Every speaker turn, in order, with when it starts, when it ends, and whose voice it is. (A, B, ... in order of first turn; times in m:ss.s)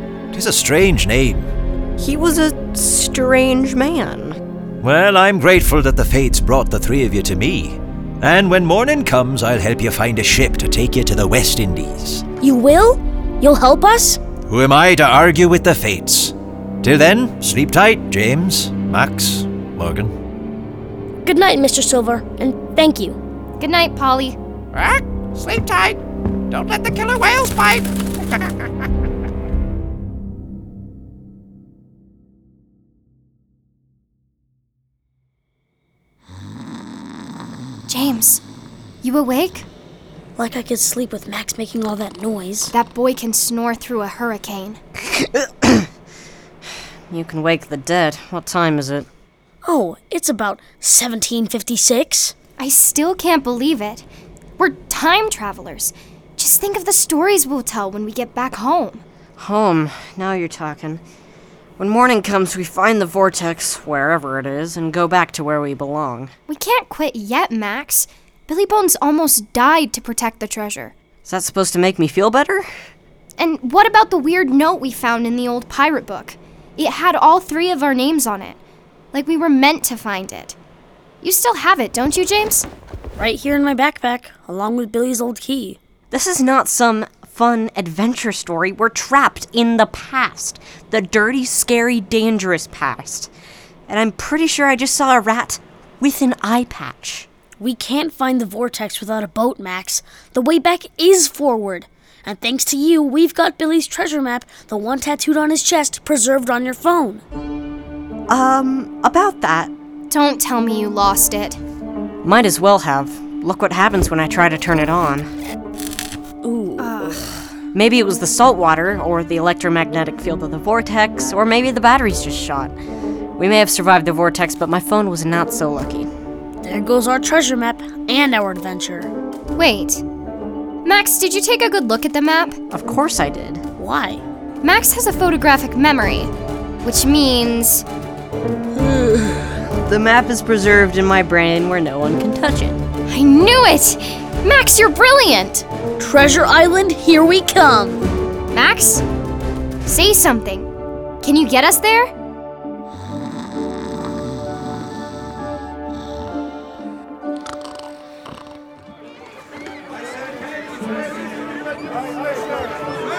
0:00.3-0:01.5 A
0:02.0-0:04.4 B
0:04.8-0:12.2 A
0:12.4-0:14.2 C
0:14.5-0:20.1 A
0:21.2-0:23.2 C
0:23.6-0:24.4 D
0:24.7-0:28.5 E
0:37.9-0:38.4 D
0:39.0-0:39.7 D
0:40.4-0:42.7 C
0:42.7-0:44.8 D
0:45.1-0:45.9 B
0:47.1-0:49.1 B
0:49.6-0:52.4 C
0:52.6-0:54.1 D
0:54.6-0:59.0 D
0:59.4-1:01.0 B
1:01.8-1:06.3 B
1:06.5-1:11.0 D
1:11.2-1:12.7 B
1:13.4-1:18.6 D
1:19.1-1:20.6 D
1:21.2-1:22.7 D
1:23.2-1:25.8 C
1:26.1-1:33.3 B
1:33.9-1:37.3 B
1:37.6-1:47.2 C
1:48.3-1:49.7 B
1:50.1-1:51.6 D
1:52.2-1:55.3 B
1:56.4-1:57.3 C
1:56.8-1:57.4 D
1:57.7-2:02.7 B
2:03.4-2:06.1 B
2:06.6-2:09.1 C
2:09.6-2:10.0 D
2:10.8-2:12.6 D
2:12.7-2:13.6 B
2:13.8-2:14.2 C
2:14.6-2:16.3 D
2:16.8-2:17.8 D
2:18.8-2:19.5 C
2:19.8-2:22.8 B
2:23.1-2:25.7 D
2:26.0-2:28.0 C
2:28.5-2:29.0 D
2:29.9-2:30.7 D
2:31.2-2:32.1 D